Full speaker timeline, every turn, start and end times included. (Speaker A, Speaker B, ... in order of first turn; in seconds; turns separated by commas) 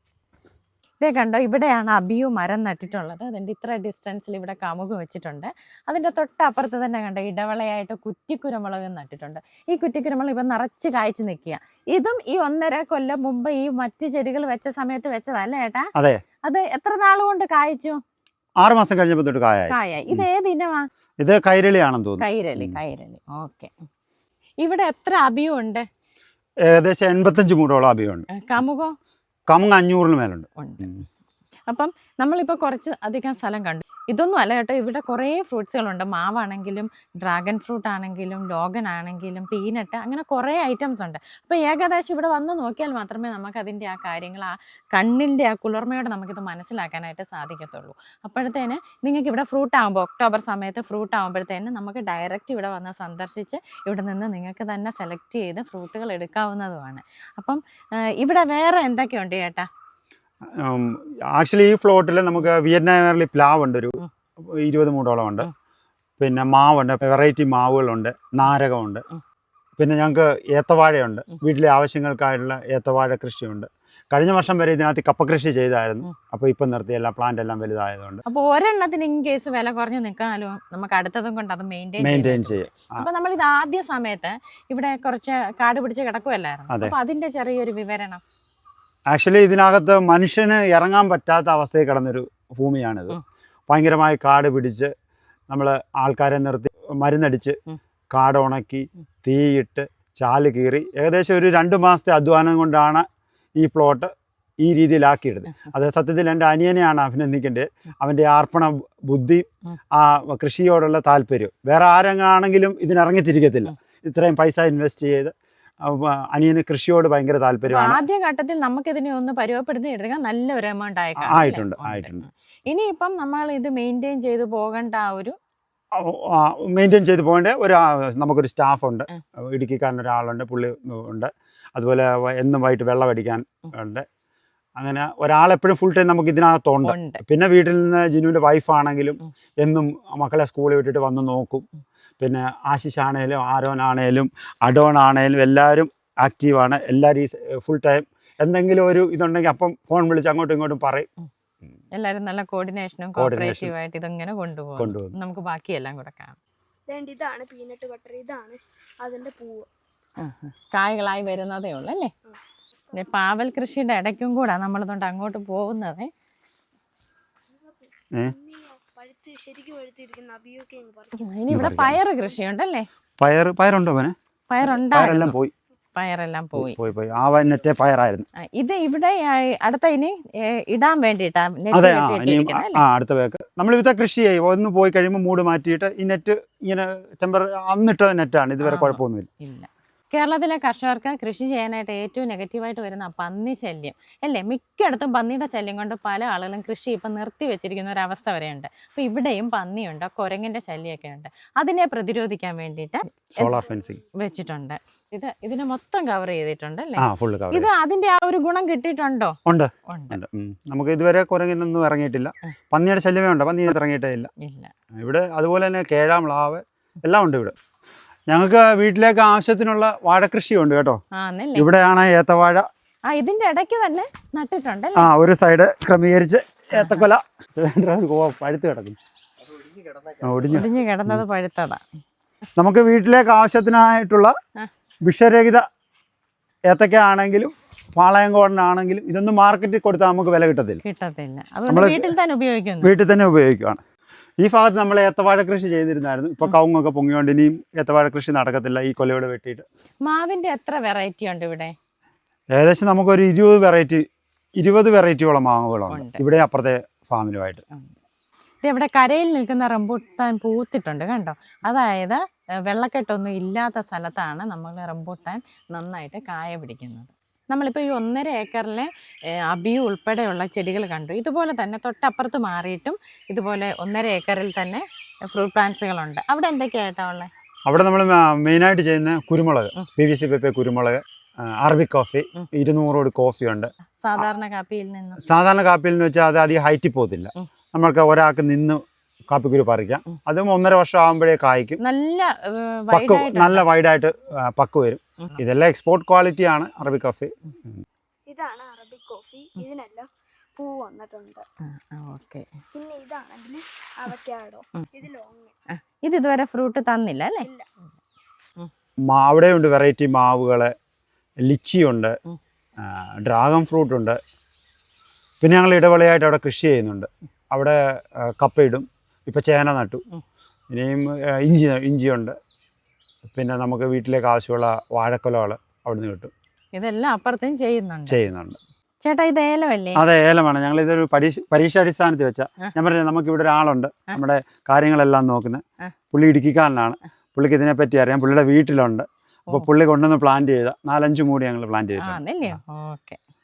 Speaker A: 1.0-15.9, Speaker B: 15.9-16.2, Speaker A: 16.4-18.0, Speaker B: 18.6-20.2, Speaker A: 19.7-20.9, Speaker B: 21.2-22.8, Speaker A: 22.2-23.7, Speaker A: 24.6-25.9, Speaker B: 26.7-28.3, Speaker A: 28.3-28.9, Speaker B: 29.5-31.0, Speaker A: 30.6-30.9, Speaker A: 31.7-59.7, Speaker B: 60.5-65.5, Speaker B: 66.2-69.0, Speaker B: 69.8-78.2, Speaker A: 78.2-88.2, Speaker B: 82.0-83.1, Speaker B: 86.7-86.9, Speaker B: 89.1-93.2, Speaker B: 93.7-94.9, Speaker B: 95.5-97.6, Speaker B: 98.1-103.0, Speaker B: 103.6-104.1, Speaker B: 104.6-118.0, Speaker A: 117.7-125.3, Speaker B: 121.2-122.3, Speaker B: 125.9-134.1, Speaker B: 134.8-141.7, Speaker A: 136.8-137.2, Speaker B: 142.2-151.1, Speaker A: 151.9-156.4, Speaker B: 153.2-153.7, Speaker B: 154.8-155.1, Speaker C: 156.9-159.7, Speaker A: 160.2-162.1, Speaker A: 162.9-166.1, Speaker C: 168.3-171.2, Speaker A: 171.1-172.8, Speaker B: 171.5-172.0, Speaker B: 173.2-174.1, Speaker A: 174.5-175.3, Speaker B: 174.7-175.5, Speaker A: 175.9-176.8, Speaker B: 176.5-178.2, Speaker A: 178.6-182.8, Speaker B: 181.7-189.3, Speaker A: 188.6-203.6, Speaker B: 203.3-204.0, Speaker A: 204.2-210.2, Speaker B: 207.0-207.7, Speaker B: 209.4-214.3, Speaker A: 214.4-214.7, Speaker B: 214.9-217.5, Speaker B: 218.3-221.0, Speaker A: 221.1-221.7, Speaker B: 221.6-222.7, Speaker A: 223.1-225.1, Speaker B: 225.0-229.0, Speaker A: 226.8-227.1, Speaker B: 230.2-231.2, Speaker A: 230.5-231.8, Speaker B: 232.6-234.3, Speaker B: 235.0-235.6, Speaker B: 236.7-240.8, Speaker A: 240.8-242.9, Speaker B: 241.7-242.1, Speaker B: 242.8-243.8, Speaker B: 244.4-249.7, Speaker A: 250.1-251.7, Speaker B: 252.5-254.0, Speaker B: 254.6-257.6, Speaker A: 255.9-256.2, Speaker A: 258.6-277.3, Speaker B: 277.7-283.7, Speaker A: 284.0-285.2, Speaker B: 285.2-291.8, Speaker A: 291.8-293.6, Speaker B: 292.9-297.8, Speaker C: 298.3-301.4, Speaker A: 301.7-302.5, Speaker C: 302.7-305.5, Speaker A: 305.7-307.5, Speaker B: 309.1-310.7, Speaker B: 311.4-312.1, Speaker B: 312.8-314.2, Speaker B: 315.4-320.0, Speaker B: 320.7-322.4, Speaker B: 323.3-326.3, Speaker A: 326.8-328.2, Speaker B: 328.1-328.6, Speaker A: 329.0-330.0, Speaker B: 329.9-335.6, Speaker B: 336.1-342.6, Speaker A: 342.0-343.2